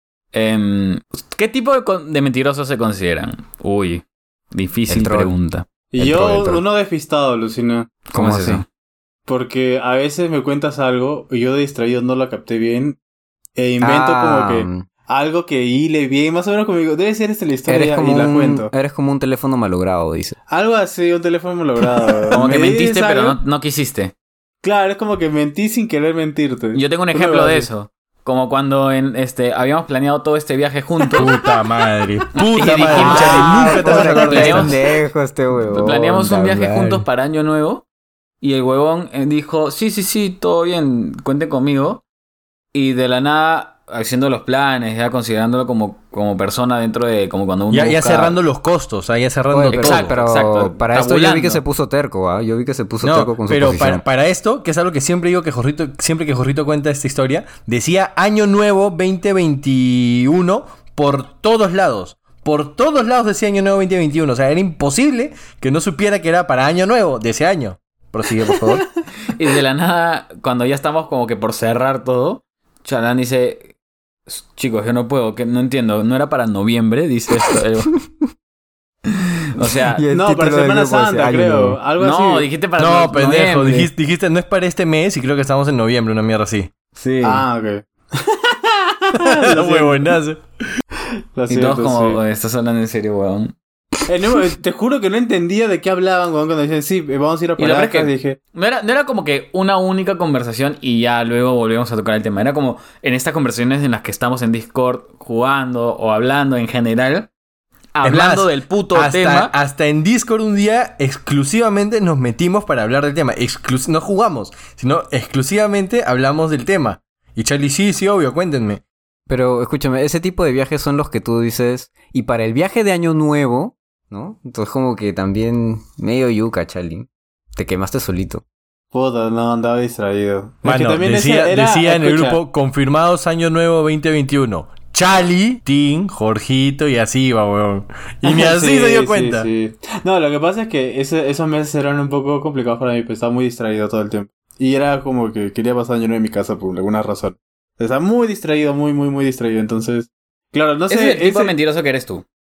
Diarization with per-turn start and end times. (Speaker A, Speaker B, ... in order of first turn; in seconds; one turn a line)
Speaker A: 0.3-5.6
Speaker B: 4.9-5.3
Speaker C: 5.9-8.0
Speaker B: 6.0-6.6
Speaker A: 8.1-8.6
Speaker B: 8.1-8.6
Speaker C: 9.3-13.0
Speaker C: 13.6-18.7
Speaker B: 13.8-14.8
Speaker B: 17.7-20.4
Speaker C: 20.5-23.4
Speaker A: 22.3-24.1
Speaker C: 24.6-27.7
Speaker A: 26.7-31.3
Speaker D: 31.1-34.7
Speaker A: 32.4-34.8
Speaker B: 32.9-37.0
Speaker C: 33.2-34.2
Speaker A: 35.7-37.8
Speaker A: 38.4-42.0
Speaker A: 42.7-48.4
Speaker D: 47.7-50.1
Speaker B: 49.5-54.0
Speaker A: 49.7-51.6
Speaker D: 53.0-68.8
Speaker A: 69.3-73.7
Speaker A: 74.3-77.9
Speaker A: 79.5-80.0
Speaker B: 79.9-81.8
Speaker C: 80.1-82.5
Speaker A: 82.0-83.9
Speaker D: 82.8-86.7
Speaker A: 87.0-87.4
Speaker C: 87.2-90.1
Speaker D: 89.1-90.4
Speaker C: 91.3-92.2
Speaker A: 91.5-93.5
Speaker C: 94.0-98.4
Speaker A: 97.6-107.3
Speaker A: 107.9-109.5
Speaker D: 108.0-118.8
Speaker B: 119.3-128.4
Speaker C: 128.9-132.4
Speaker D: 130.6-139.5
Speaker C: 138.2-151.5
Speaker A: 150.9-152.2